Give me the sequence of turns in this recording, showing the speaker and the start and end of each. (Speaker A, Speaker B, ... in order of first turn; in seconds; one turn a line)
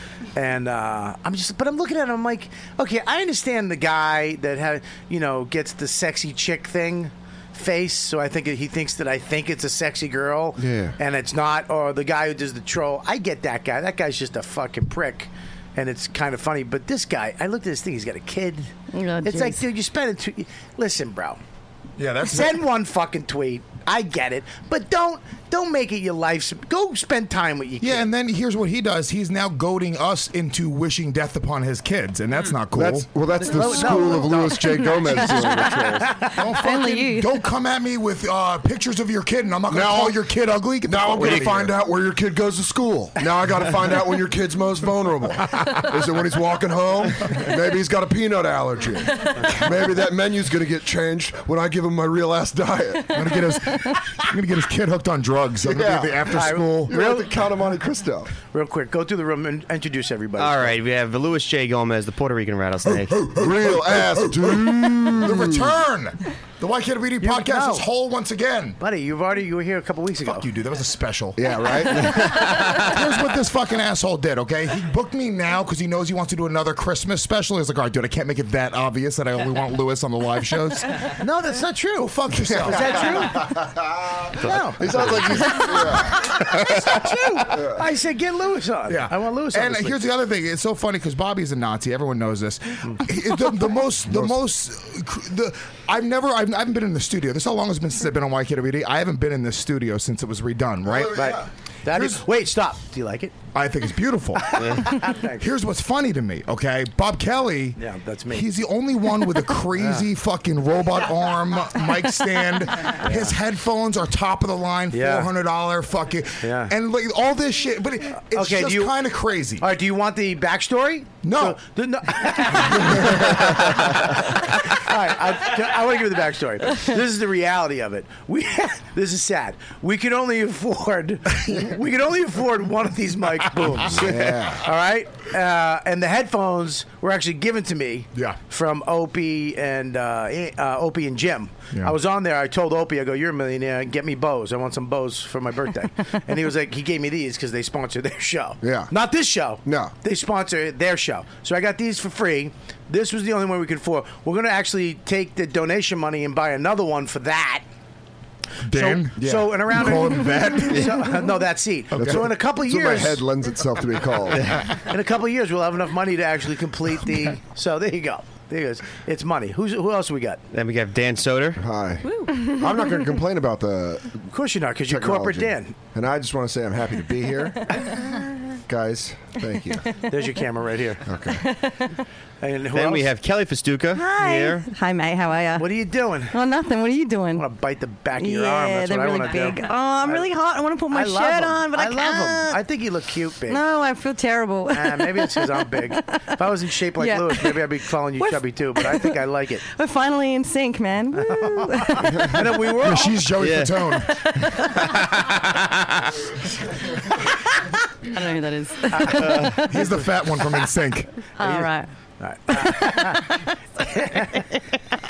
Speaker A: 0.3-21.4
Speaker B: 10.6-11.0
Speaker C: 18.9-19.6
Speaker D: 22.0-22.6
Speaker A: 22.2-28.1
Speaker D: 27.8-33.1
Speaker B: 32.7-36.1
Speaker A: 33.4-36.2
Speaker C: 34.6-37.4
Speaker D: 36.3-41.8
Speaker B: 39.7-53.3
Speaker D: 53.1-56.9
Speaker B: 55.6-58.3
Speaker A: 56.3-57.3
Speaker A: 58.5-60.7
Speaker E: 60.4-63.2
Speaker D: 62.9-68.8
Speaker B: 63.3-65.8
Speaker A: 67.2-67.8
Speaker A: 68.8-70.5
Speaker D: 70.3-81.2
Speaker B: 71.3-73.0
Speaker A: 81.2-83.6
Speaker D: 82.0-83.4
Speaker B: 82.7-86.4
Speaker A: 84.4-90.0
Speaker D: 86.3-87.1
Speaker B: 87.5-87.8
Speaker D: 88.9-101.4
Speaker B: 94.1-94.4
Speaker A: 100.9-103.3
Speaker D: 101.9-102.2
Speaker D: 103.5-119.7
Speaker A: 104.4-105.5
Speaker A: 107.8-108.5
Speaker A: 109.8-110.1
Speaker A: 113.0-113.3
Speaker A: 114.9-115.3
Speaker A: 116.4-116.7
Speaker A: 118.3-119.0
Speaker A: 119.6-157.6
Speaker D: 121.2-121.6
Speaker D: 122.6-124.2
Speaker B: 133.9-134.7
Speaker B: 148.6-148.9
Speaker B: 149.6-149.9
Speaker D: 158.6-161.2
Speaker A: 158.7-163.2
Speaker D: 161.9-162.2
Speaker B: 161.9-164.6
Speaker A: 164.7-170.4
Speaker E: 170.5-171.6
Speaker B: 171.6-174.3
Speaker C: 172.3-172.7
Speaker A: 174.3-175.7
Speaker B: 174.8-177.7
Speaker B: 178.7-179.8
Speaker A: 180.1-181.0
Speaker B: 181.1-181.4
Speaker C: 181.4-182.0
Speaker A: 182.4-183.1
Speaker E: 182.7-184.7
Speaker C: 183.9-187.4
Speaker A: 185.6-186.3
Speaker A: 187.3-190.3
Speaker C: 188.2-192.6
Speaker A: 190.9-193.6
Speaker C: 193.5-196.2
Speaker A: 194.7-199.6
Speaker C: 197.0-199.2
Speaker C: 199.7-202.2
Speaker A: 201.2-203.2
Speaker D: 202.8-205.3
Speaker E: 203.4-203.9
Speaker C: 208.1-209.8
Speaker A: 208.9-209.6
Speaker D: 209.6-211.2
Speaker C: 211.4-211.9
Speaker A: 211.4-211.7
Speaker A: 212.2-214.6
Speaker C: 212.6-213.3